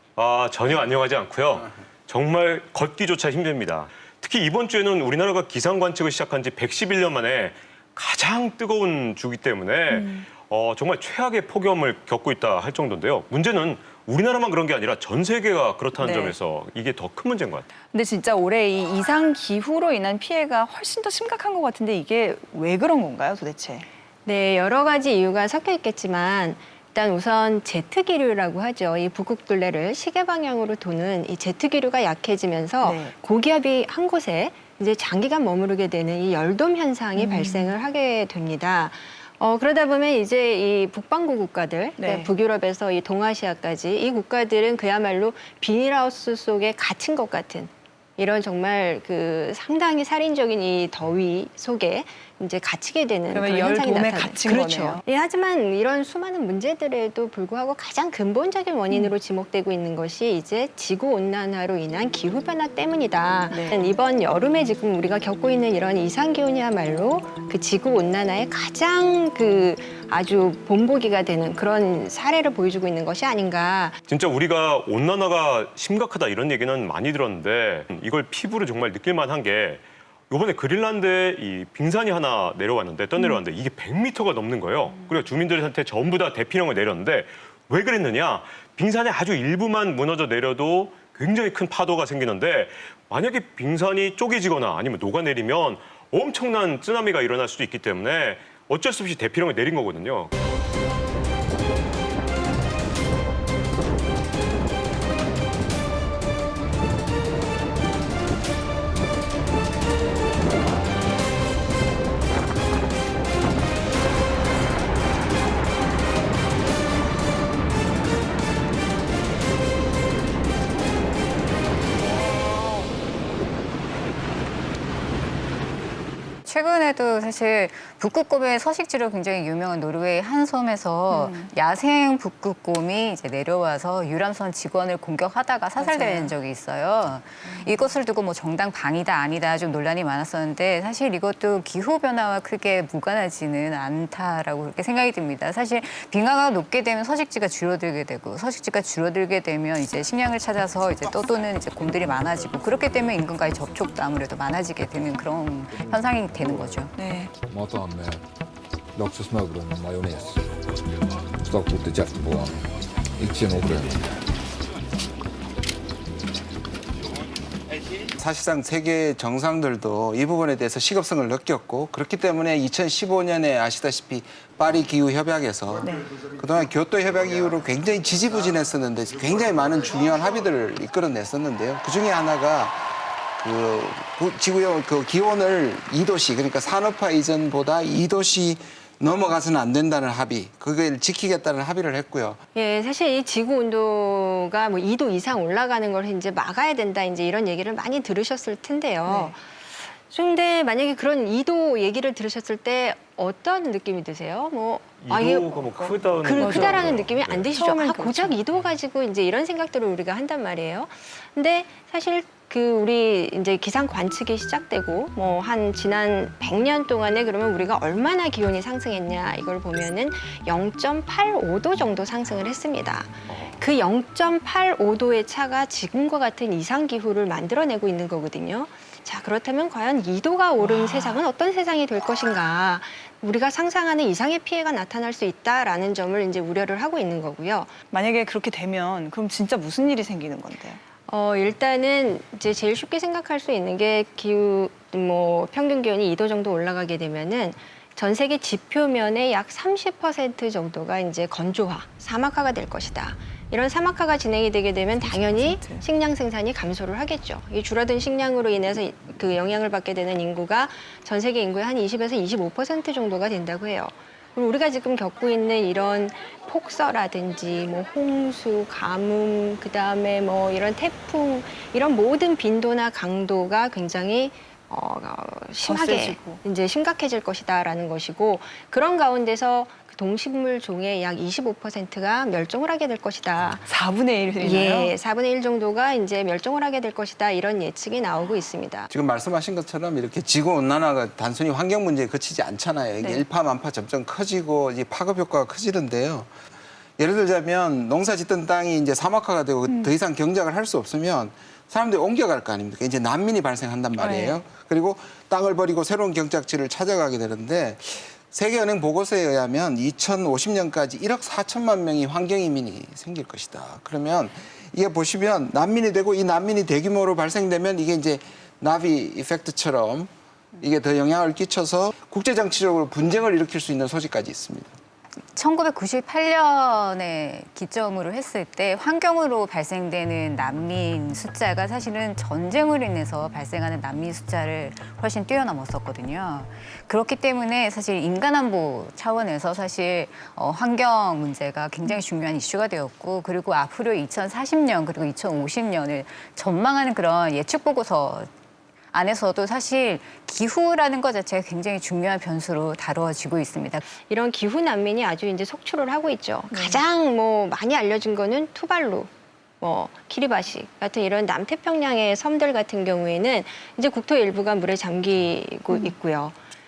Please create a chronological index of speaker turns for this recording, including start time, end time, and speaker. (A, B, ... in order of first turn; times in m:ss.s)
0:00.2-0:17.7 A
0:09.9-0:10.3 B
0:16.0-0:16.4 B
0:17.9-0:23.9 B
0:24.2-1:14.0 C
0:32.8-0:33.1 B
0:37.2-0:37.8 B
0:42.0-0:42.3 B
0:53.3-0:55.0 B
1:03.5-1:03.8 B
1:14.1-1:40.3 A
2:06.4-2:36.9 D
2:11.1-2:11.5 B
2:15.8-2:16.3 B
2:35.9-2:36.8 E
2:36.9-2:37.3 B
2:37.4-2:38.2 E
2:38.9-2:44.0 E
2:48.2-3:02.8 F
3:03.4-3:12.4 F
3:12.6-3:19.5 C
3:19.0-3:19.4 B
3:20.1-3:57.7 C
3:25.0-3:27.5 A
3:26.2-3:26.9 B
3:27.5-3:28.4 B
3:50.6-3:51.2 B
3:57.9-4:00.8 B
4:01.1-4:43.6 C
4:14.9-4:15.9 B
4:35.6-4:36.4 B
4:43.6-4:45.0 B
4:44.4-4:48.9 C
4:48.9-4:56.3 F
4:53.0-4:53.2 B
4:57.0-5:24.8 F
4:59.7-4:59.9 B
5:04.0-5:04.4 B
5:25.4-5:48.3 D
5:48.9-5:53.8 D
5:54.1-5:59.1 C
5:56.5-5:56.8 B
5:59.6-6:06.3 C